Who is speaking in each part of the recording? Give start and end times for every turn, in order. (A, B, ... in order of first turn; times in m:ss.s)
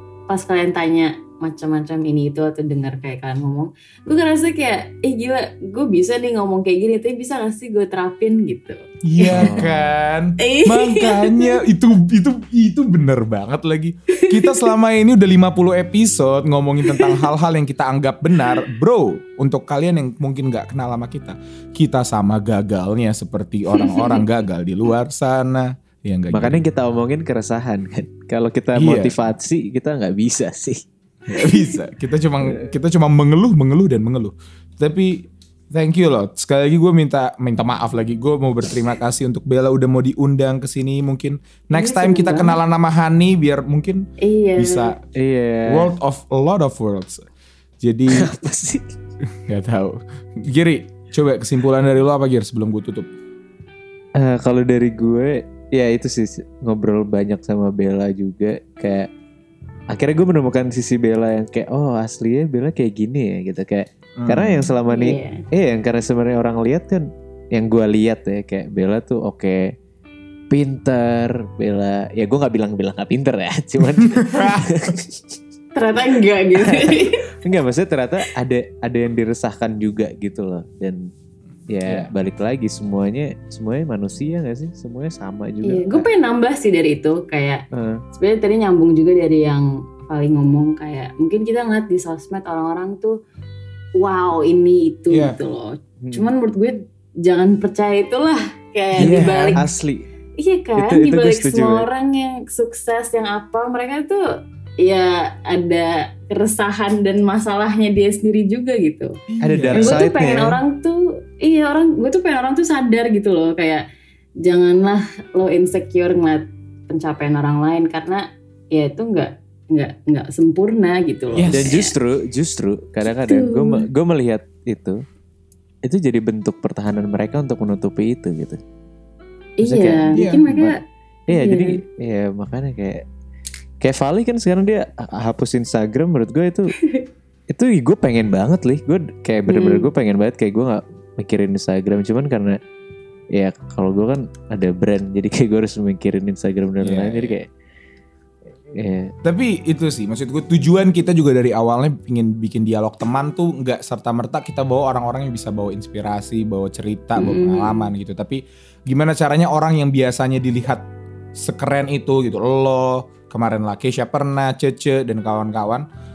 0:00.3-0:09.7 A
0:09.0-0:26.6 B
0:09.3-0:09.8 C
0:10.4-0:11.6 A
0:14.2-0:14.7 A
0:16.8-0:17.3 A
0:23.7-0:24.2 A
0:26.3-0:30.8 C
0:28.7-0:29.1 B
0:31.3-0:45.0 B
0:41.7-0:42.6 A
0:44.2-0:44.9 A
0:45.1-0:45.9 C
0:45.7-0:47.3 B
0:47.8-0:48.3 B
0:48.1-0:48.9 C
0:49.3-0:53.1 B
0:54.2-0:59.1 C
0:59.9-1:09.7 C
1:04.2-1:04.7 B
1:04.9-1:05.4 A
1:10.5-1:15.4 C
1:14.0-1:14.8 B
1:15.7-1:17.2 A
1:16.6-1:21.1 C
1:21.7-1:26.1 C
1:21.8-1:22.1 B
1:25.6-1:33.2 A
1:27.7-1:28.0 C
1:34.0-1:39.6 A
1:35.1-1:35.4 B
1:36.0-1:36.3 C
1:39.0-1:39.6 B
1:39.0-1:40.0 C
1:40.4-1:44.2 A
1:40.8-1:41.8 C
1:44.8-1:49.1 A
1:49.3-1:50.0 B
1:49.4-1:50.6 C
1:49.7-1:53.8 A
1:54.4-2:01.9 A
2:01.3-2:01.7 B
2:01.5-2:05.0 C
2:03.0-2:03.8 A
2:05.8-2:08.6 C
2:09.6-2:10.8 A
2:09.6-2:10.7 C
2:10.1-2:10.5 B
2:11.3-2:11.8 A
2:11.3-2:13.0 C
2:13.8-2:16.7 C
2:17.5-2:22.6 C
2:19.5-2:19.9 A
2:23.3-2:27.5 C
2:26.8-2:27.3 B
2:28.7-2:29.1 C
2:29.2-2:40.8 B
2:37.1-2:37.9 A
2:41.3-2:45.8 B